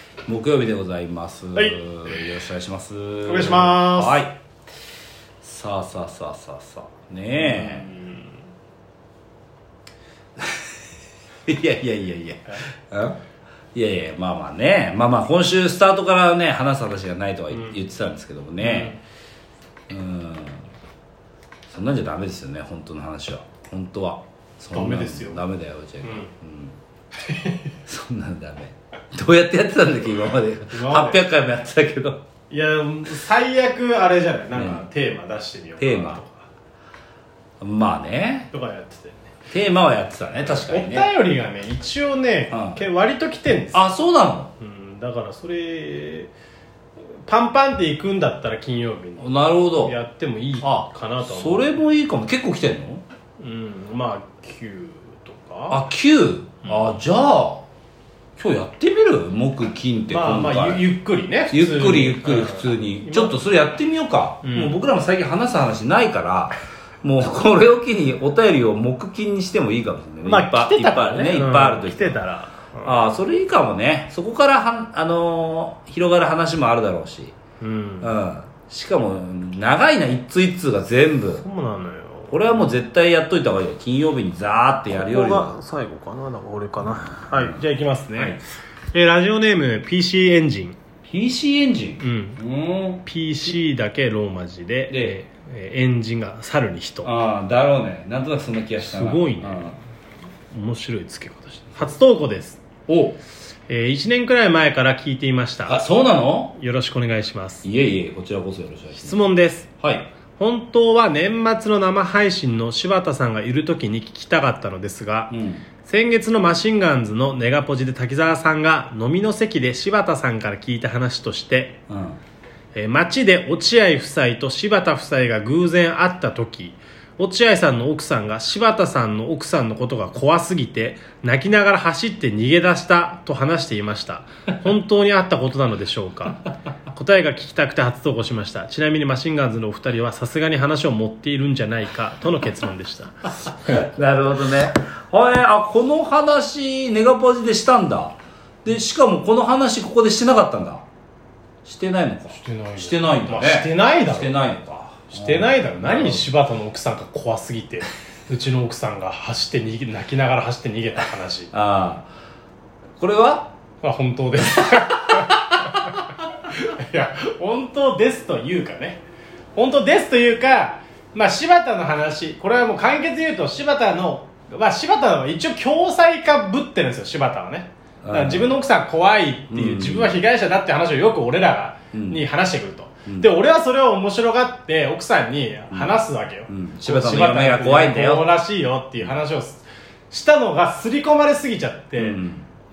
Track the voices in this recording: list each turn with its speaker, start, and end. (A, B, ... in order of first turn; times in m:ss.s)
0:00.3-0:04.4 A
0:03.3-0:04.2 B
0:05.4-0:07.9 A
0:07.4-0:08.3 B
0:10.4-0:10.6 A
0:11.5-0:13.2 A
0:13.7-0:19.0 A
0:18.6-0:19.0 B
0:19.9-0:20.7 A
0:21.7-0:26.8 A
0:24.7-0:25.4 B
0:26.0-0:26.3 B
0:27.2-0:27.7 B
0:27.9-0:32.2 A
0:30.7-0:31.2 B
0:32.5-0:36.5 B
0:34.5-0:34.8 A
0:35.8-0:36.2 A
0:37.6-0:38.5 A
0:38.5-0:39.3 B
0:39.5-0:41.1 A
0:40.5-0:43.8 B
0:42.5-0:42.8 A
0:43.7-0:44.5 A
0:44.6-0:46.3 B
0:47.2-0:51.7 B
0:49.2-0:49.9 A
0:50.6-0:53.0 A
0:53.4-0:55.8 B
0:55.7-0:57.6 A
0:58.4-1:00.8 A
1:00.1-1:03.5 B
1:01.5-1:12.2 A
1:04.4-1:04.8 B
1:10.2-1:13.1 B
1:12.8-1:17.4 A
1:17.6-1:18.2 B
1:18.0-1:21.4 A
1:21.4-1:22.4 B
1:22.3-1:25.6 A
1:24.9-1:30.8 B
1:27.3-1:27.6 A
1:31.1-1:33.0 A
1:32.0-1:32.4 B
1:33.0-1:37.1 B
1:34.9-1:35.2 A
1:37.0-1:39.8 A
1:38.8-1:39.8 B
1:40.5-1:42.6 B
1:42.9-1:43.2 A
1:43.7-1:45.8 B
1:45.7-1:46.6 A
1:46.6-1:47.7 B
1:47.6-1:49.2 A
1:49.0-1:49.7 B
1:49.8-1:50.1 A
1:50.4-2:01.8 B
1:55.3-1:55.6 A
2:01.9-2:02.2 A
2:02.7-2:23.7 B
2:23.6-2:30.8 A
2:31.6-2:36.2 A
2:32.3-2:34.3 B
2:35.1-2:41.5 B
2:41.5-2:42.1 A
2:43.0-2:43.5 A
2:43.8-2:49.0 B
2:49.6-3:12.2 B
2:58.0-2:58.5 A
2:59.5-3:00.2 A
3:01.9-3:02.2 A
3:05.7-3:08.3 A
3:12.0-3:12.5 A